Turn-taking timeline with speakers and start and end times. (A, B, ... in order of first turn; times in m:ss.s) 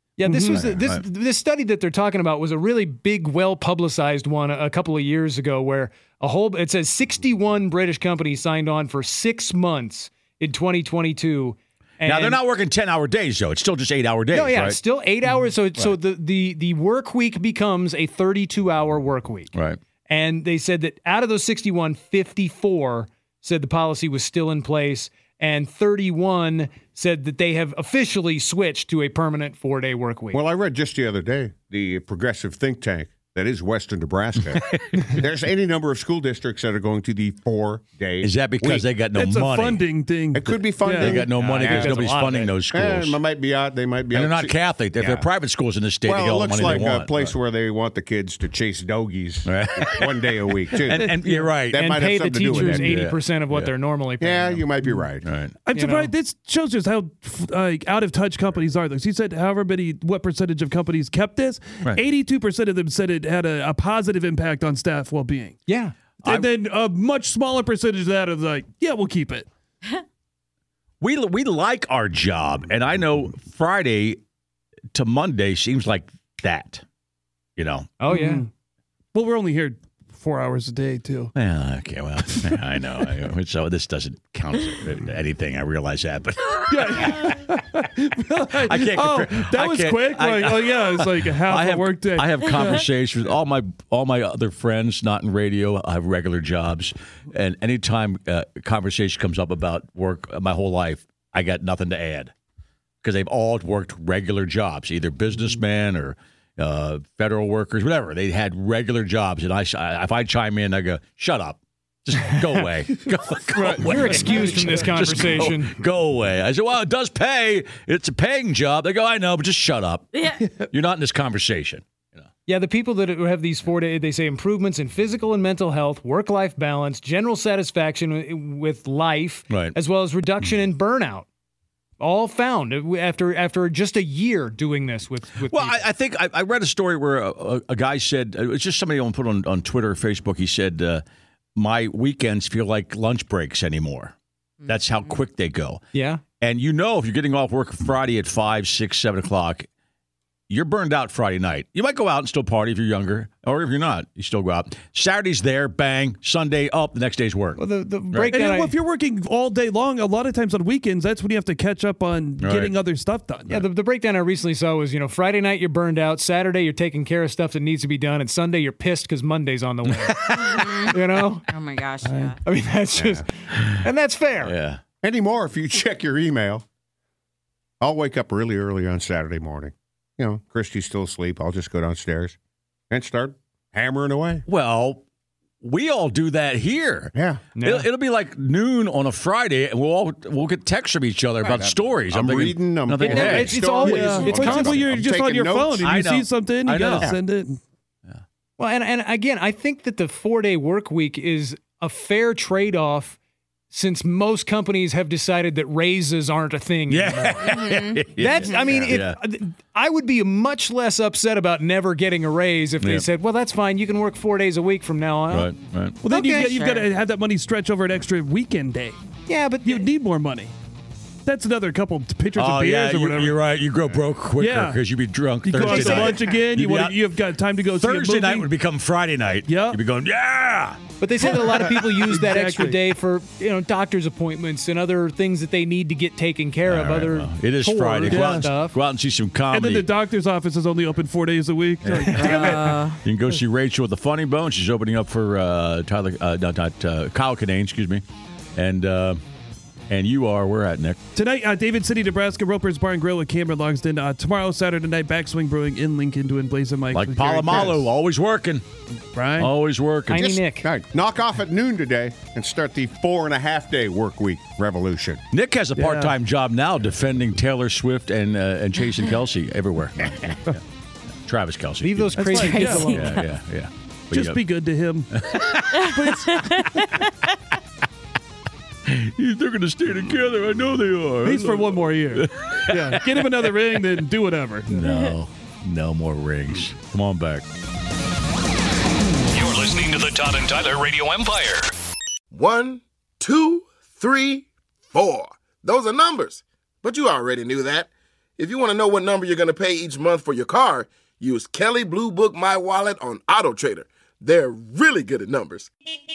0:00.2-0:12.4 A
0:00.3-0:00.5 B
0:00.5-0:01.0 C
0:12.0-0:14.8 C
0:14.3-0:19.5 A
0:15.3-0:15.9 C
0:19.5-0:19.8 C
0:20.1-0:30.4 A
0:30.3-0:38.9 D
0:34.5-0:35.0 C
0:38.2-0:39.9 C
0:39.1-0:41.2 B
0:40.3-0:41.9 D
0:41.0-0:43.2 C
0:41.1-0:42.5 A
0:42.7-0:45.3 D
0:44.1-0:47.3 C
0:46.0-0:51.1 D
0:49.4-0:52.0 C
0:50.9-0:51.5 B
0:51.6-0:53.0 D
0:51.7-0:54.7 A
0:52.8-0:53.7 C
0:54.2-0:55.2 D
0:55.2-0:55.6 C
0:55.6-1:05.6 B
0:55.7-0:56.1 A
1:05.7-1:05.9 A
1:06.2-1:06.5 C
1:06.2-1:09.5 B
1:11.0-1:14.2 C
1:14.9-1:16.8 C
1:17.6-1:17.9 C
1:18.0-1:18.4 A
1:18.1-1:18.5 B
1:19.1-1:21.3 B
1:21.3-1:27.2 C
1:26.7-1:32.8 B
1:28.6-1:42.3 C
1:43.0-2:02.2 C
1:53.5-1:54.8 B
1:53.8-1:55.7 A
2:00.1-2:00.4 E
2:02.4-2:11.2 A
2:09.5-2:09.7 C
2:12.0-2:15.8 A
2:15.5-2:21.0 C
2:21.6-2:25.8 C
2:25.9-2:26.2 A
2:26.4-2:29.7 C
2:30.5-2:38.3 C
2:37.6-2:38.7 A
2:38.3-2:43.6 B
2:42.4-2:42.7 C
2:43.5-2:51.4 A
2:49.9-2:50.3 C
2:50.4-2:52.4 E
2:52.4-2:54.5 A
2:53.0-2:53.2 D
2:54.4-2:54.8 C
2:55.0-2:56.6 D
2:57.8-3:02.4 D
3:02.9-3:04.4 D
3:04.5-3:05.0 C
3:05.6-3:13.7 C
3:07.1-3:07.4 D
3:07.5-3:07.9 A
3:11.4-3:16.0 D
3:13.0-3:14.8 A
3:13.6-3:17.6 B
3:15.8-3:17.1 C
3:18.6-3:23.2 A
3:23.7-3:27.6 A
3:26.9-3:29.2 C
3:27.4-3:28.0 E
3:28.1-3:35.5 A
3:32.8-3:33.0 C
3:35.3-3:36.0 C
3:36.0-3:39.0 B
3:36.1-3:36.6 A
3:36.4-3:36.9 E
3:39.3-3:39.8 A
3:39.6-3:40.5 B
3:41.2-3:43.4 B
3:42.3-3:47.0 C
3:44.4-3:44.8 B
3:45.4-3:48.5 B
3:45.6-3:46.2 A
3:47.7-3:50.8 C
3:49.5-3:49.8 B
3:51.0-3:58.8 A
3:51.2-3:52.8 B
3:56.6-4:00.0 C
3:58.1-3:58.5 B
3:59.5-4:02.8 B
4:01.8-4:08.0 C
4:02.2-4:03.0 E
4:08.6-4:09.2 C
4:09.9-4:11.0 C
4:11.1-4:17.9 B
4:16.9-4:18.6 C
4:19.1-4:19.5 B
4:19.4-4:20.2 C
4:20.1-4:20.7 A
4:20.1-4:25.2 D
4:25.3-4:30.6 C
4:25.7-4:26.1 B
4:31.2-4:32.3 C
4:31.8-4:33.0 A
4:32.2-4:33.2 E
4:32.2-4:33.3 B
4:32.9-4:34.5 C
4:34.1-4:35.2 B
4:35.1-4:35.8 C
4:35.6-4:37.1 E
4:36.0-4:36.7 B
4:38.9-4:43.2 C
4:41.2-4:44.9 B
4:44.7-4:47.4 C
4:49.3-4:51.6 F
4:52.3-5:05.7 G